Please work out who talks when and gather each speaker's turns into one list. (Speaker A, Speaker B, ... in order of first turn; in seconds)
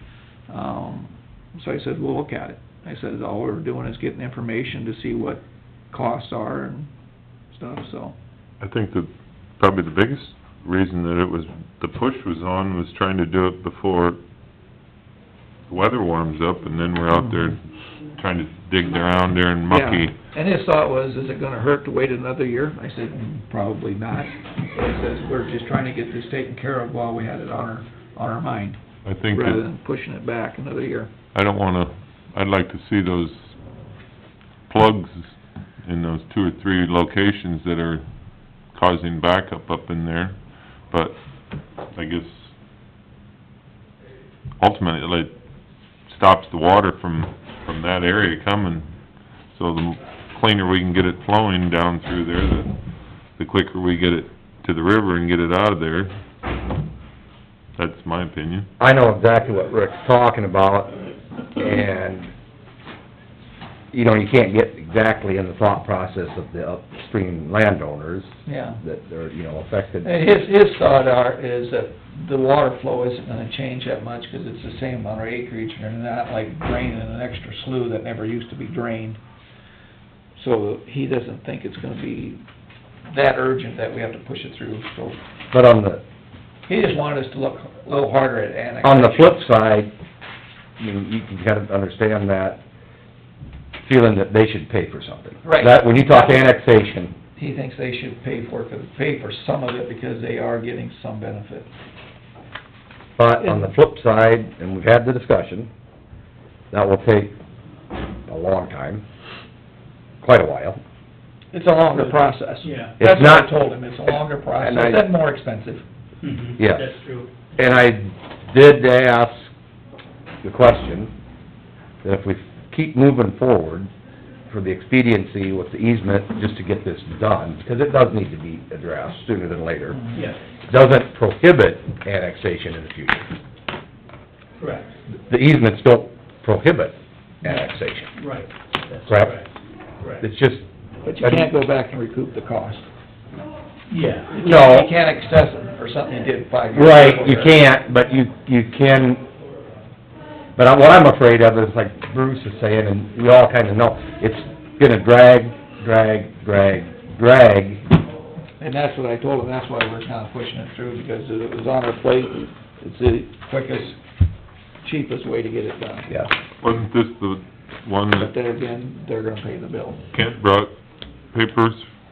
Speaker A: 0.5-6.9, 7.5-8.1, 19.7-28.8, 29.3-31.1, 68.5-68.8, 70.0-79.2, 80.3-82.4, 83.1-85.2, 86.7-89.4, 95.4-96.4, 97.3-101.7, 103.4-103.7, 111.5-115.8, 141.0-142.8, 144.3-147.6, 158.6-164.0, 164.8-166.1, 168.1-170.0
Speaker B: 8.6-14.2, 15.7-20.1, 29.0-29.6, 31.3-33.5, 34.7-35.3, 35.8-38.0, 38.6-41.2, 41.9-42.5, 44.6-45.3, 46.1-48.9, 49.5-52.7, 53.4-56.1, 57.8-58.7, 166.6-168.3, 170.1-170.7, 171.3-171.8
Speaker C: 58.8-60.9, 61.5-62.3, 63.9-70.1, 85.5-86.0, 88.8-89.9, 90.8-92.6, 93.8-97.1, 103.2-105.7, 106.7-107.3, 108.3-109.0, 110.2-110.8, 113.0-113.5, 114.6-115.1, 116.6-116.8, 117.5-119.5, 120.4-121.1, 122.0-123.9, 124.5-130.0, 130.7-133.3, 135.3-138.1, 139.1-139.3, 140.2-140.6, 141.2-141.5, 144.4-144.9, 146.7-149.2, 150.6-157.8
Speaker D: 112.0-112.9, 116.2-117.3, 130.1-130.4, 134.6-134.9, 138.2-139.5, 140.0-140.2, 143.9-144.4